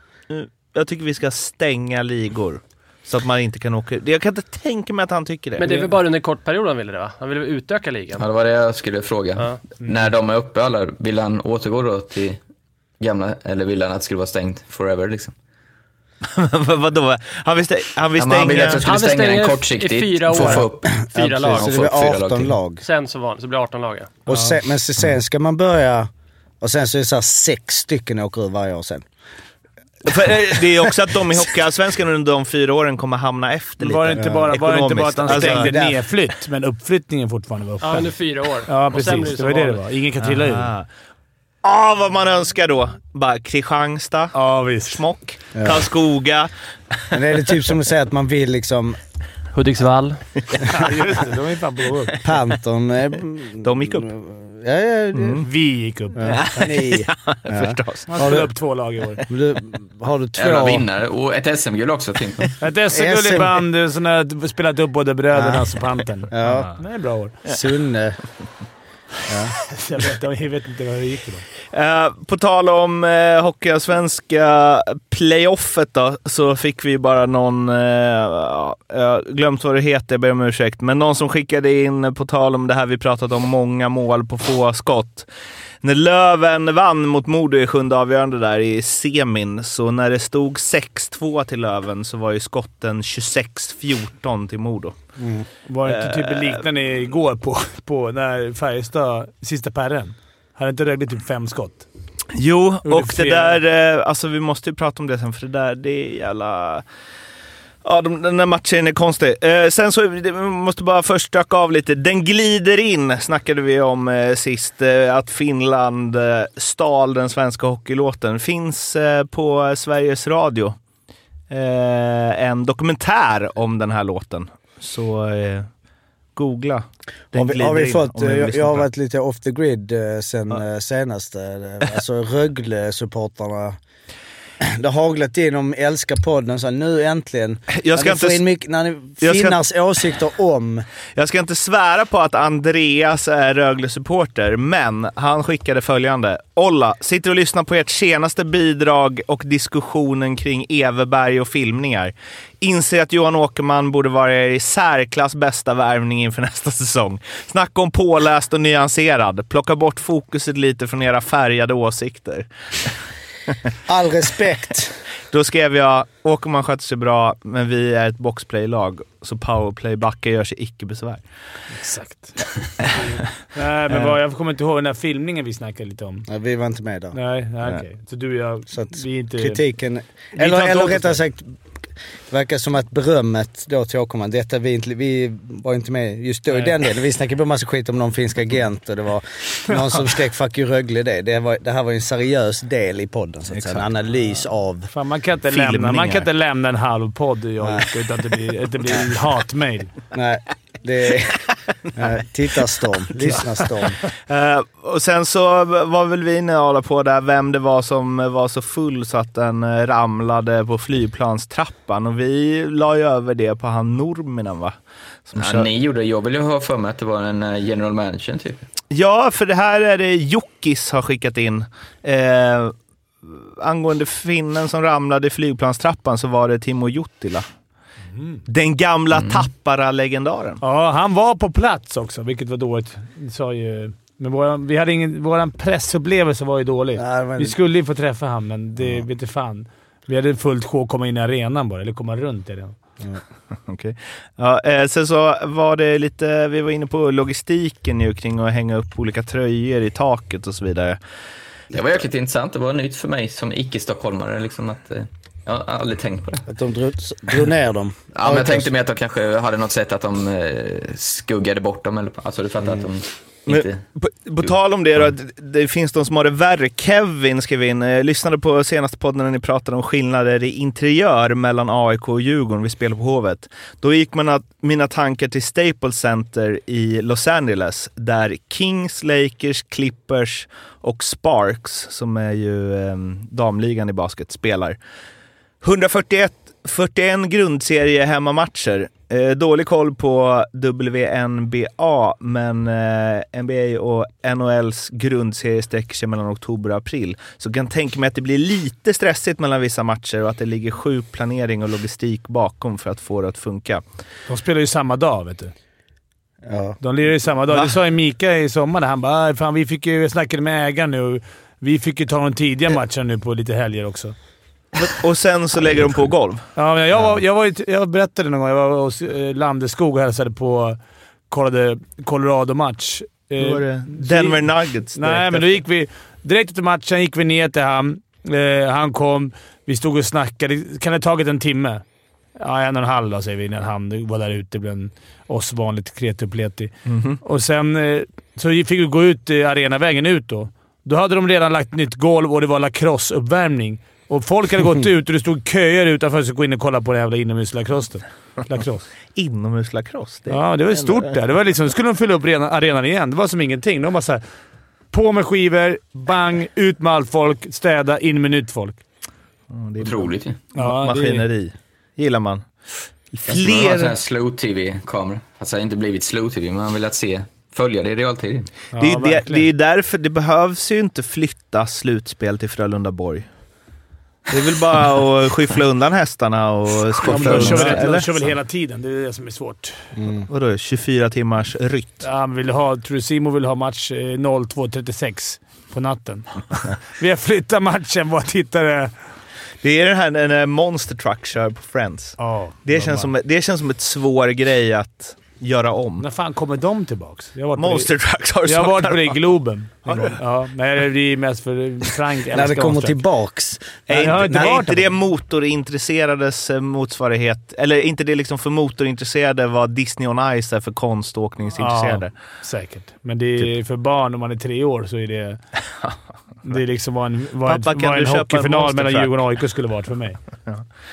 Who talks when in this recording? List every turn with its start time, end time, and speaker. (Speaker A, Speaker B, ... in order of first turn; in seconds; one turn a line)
Speaker A: 0.3-5.9
Speaker B: 5.6-8.2
Speaker C: 8.2-12.4
Speaker C: 13.0-15.3
Speaker A: 16.2-18.9
Speaker C: 18.2-22.6
Speaker B: 18.8-21.7
Speaker D: 20.4-22.8
Speaker B: 22.8-24.2
Speaker D: 24.3-26.1
Speaker D: 26.6-29.0
Speaker A: 30.1-35.7
Speaker E: 33.8-38.1
Speaker D: 34.2-34.5
Speaker D: 35.3-36.0
Speaker B: 37.8-39.8
Speaker E: 38.7-40.7
Speaker A: 40.2-40.9
Speaker A: 41.6-44.4
Speaker E: 44.3-45.0
Speaker A: 44.9-46.5
Speaker D: 45.5-45.9
Speaker D: 47.1-49.0
Speaker B: 49.5-50.2
Speaker E: 50.6-52.2
Speaker D: 52.2-55.5
Speaker A: 53.6-54.1
Speaker A: 55.1-55.5
Speaker E: 55.4-56.4
Speaker D: 56.2-58.5
Speaker A: 56.2-58.1
Speaker E: 58.1-59.2
Speaker D: 59.3-60.9
Speaker C: 60.4-62.5
Speaker E: 62.6-67.3
Speaker D: 62.9-63.5
Speaker D: 65.3-65.7
Speaker D: 66.3-66.7
Speaker A: 66.4-66.7
Speaker D: 67.5-68.2
Speaker D: 69.3-69.5
Speaker E: 69.7-71.5
Speaker A: 71.7-85.3
Speaker A: 85.8-95.0
Speaker D: 95.2-95.5
Speaker E: 95.7-101.9
Speaker A: 95.9-96.7
Speaker A: 102.3-106.8
Speaker E: 102.8-103.6
Speaker A: 107.8-120.8
Speaker A: 121.5-125.7
Speaker A: 126.4-128.9
Speaker D: 127.3-133.8
Speaker D: 134.6-140.9
Speaker A: 137.7-138.4
Speaker A: 139.2-139.6
Speaker A: 141.2-162.9
Speaker D: 163.9-165.0
Speaker A: 165.3-171.2
Speaker E: 171.7-176.3
Speaker D: 176.3-177.2
Speaker E: 177.1-179.6
Speaker D: 178.7-181.6
Speaker E: 180.4-181.2
Speaker D: 182.3-194.9
Speaker A: 193.5-193.9
Speaker E: 194.9-199.9
Speaker A: 195.5-196.3
Speaker D: 200.1-201.4
Speaker D: 201.9-204.0
Speaker A: 204.3-214.8
Speaker A: 215.3-215.7
Speaker C: 215.4-218.7
Speaker A: 218.9-227.4
Speaker E: 228.2-228.4
Speaker A: 228.5-230.6
Speaker C: 229.2-229.4
Speaker E: 230.6-242.8
Speaker D: 237.0-237.6
Speaker A: 243.7-251.0
Speaker C: 251.7-256.5
Speaker D: 256.5-258.7
Speaker C: 258.2-263.8
Speaker A: 263.5-284.8
Speaker A: 285.6-303.8
Speaker E: 304.3-305.5
Speaker D: 306.4-306.8
Speaker E: 306.8-314.1
Speaker A: 314.8-316.4
Speaker E: 316.6-320.8
Speaker E: 321.3-324.4
Speaker A: 323.4-325.5
Speaker E: 324.9-331.8
Speaker E: 332.4-336.7
Speaker A: 336.9-337.2
Speaker E: 337.2-348.9
Speaker A: 349.2-351.0
Speaker E: 350.3-354.2
Speaker E: 354.9-358.8
Speaker A: 359.5-362.4
Speaker C: 359.8-360.4
Speaker E: 360.6-361.3
Speaker A: 363.1-363.9
Speaker C: 363.3-368.5
Speaker E: 368.7-369.5
Speaker A: 368.8-373.3
Speaker A: 374.3-378.1
Speaker E: 377.0-379.8
Speaker D: 380.0-380.3
Speaker A: 380.3-382.0
Speaker E: 382.0-388.9
Speaker A: 389.6-396.1
Speaker E: 392.2-393.1
Speaker E: 396.0-397.9
Speaker A: 397.6-399.2
Speaker E: 398.4-403.0
Speaker A: 399.9-400.2
Speaker D: 402.3-404.6
Speaker A: 403.9-412.1
Speaker E: 403.9-404.9
Speaker E: 411.6-415.4
Speaker E: 416.4-420.2
Speaker A: 417.4-419.2